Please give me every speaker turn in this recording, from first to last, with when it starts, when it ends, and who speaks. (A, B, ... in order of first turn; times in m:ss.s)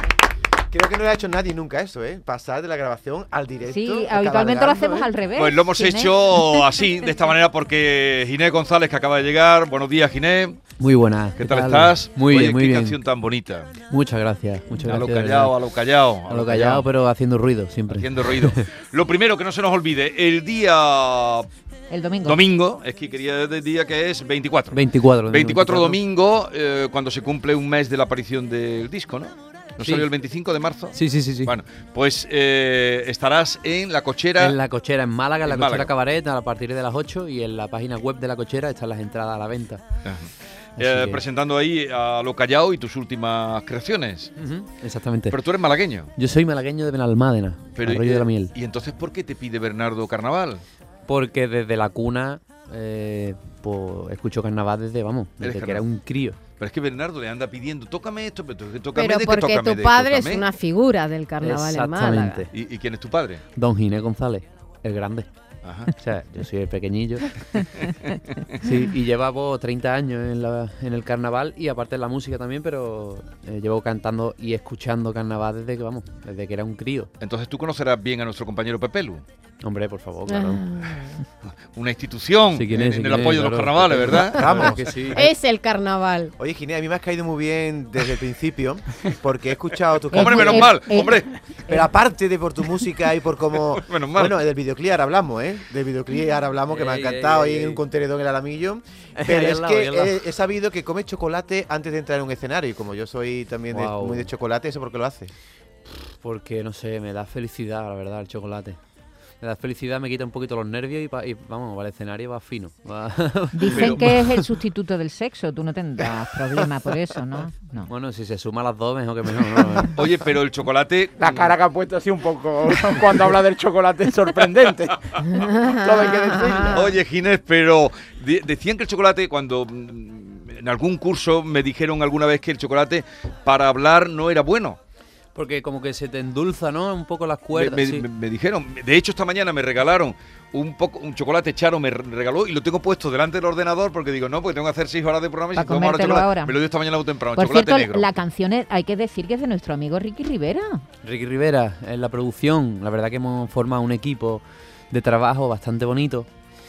0:00.7-0:05.1 A
0:03.6-0:06.6 B
0:05.3-0:10.6 C
0:10.8-0:13.0 D
0:11.4-0:13.7 C
0:13.9-0:15.5 D
0:14.8-0:16.9 C
0:16.3-0:18.6 D
0:17.9-0:21.5 C
0:21.9-0:22.4 B
0:22.2-0:34.6 C
0:24.7-0:26.0 D
0:29.8-0:30.1 D
0:30.9-0:31.5 D
0:34.4-0:39.8 D
0:35.4-0:35.9 C
0:40.0-0:44.3 C
0:40.8-0:41.2 D
0:44.4-0:45.4 D
0:45.3-0:46.1 C
0:46.2-0:48.5 D
0:47.8-0:50.6 C
0:51.1-0:56.4 D
0:55.4-0:55.8 C
0:56.6-1:00.4 C
0:58.9-1:02.4 E
1:01.4-1:02.5 D
1:02.5-1:03.4 C
1:03.6-1:05.3 D
1:05.6-1:05.9 C
1:06.0-1:07.4 D
1:07.9-1:08.4 C
1:08.6-1:17.1 D
1:17.2-1:19.2 C
1:19.6-1:20.6 D
1:20.3-1:20.6 E
1:20.7-1:21.2 B
1:21.7-1:24.8 C
1:22.5-1:25.3 D
1:24.3-1:25.2 A
1:25.2-1:26.3 B
1:26.4-1:30.8 A
1:30.1-1:31.8 B
1:30.1-1:31.4 C
1:31.6-1:45.3 A
1:33.7-1:34.4 C
1:36.7-1:37.8 D
1:39.2-1:40.2 D
1:43.7-1:44.3 D
1:46.2-1:48.8 D
1:49.4-1:54.5 D
1:53.5-1:57.9 B
1:53.6-1:54.1 C
1:57.9-2:00.0 D
1:59.9-2:01.4 C
2:01.2-2:06.8 F
2:01.2-2:01.5 D
2:04.4-2:05.6 C
2:05.4-2:06.8 B
2:06.6-2:14.8 C
2:15.3-2:18.1 D
2:17.5-2:28.1 C
2:25.5-2:26.6 B
2:27.3-2:30.8 B
2:31.0-2:36.3 D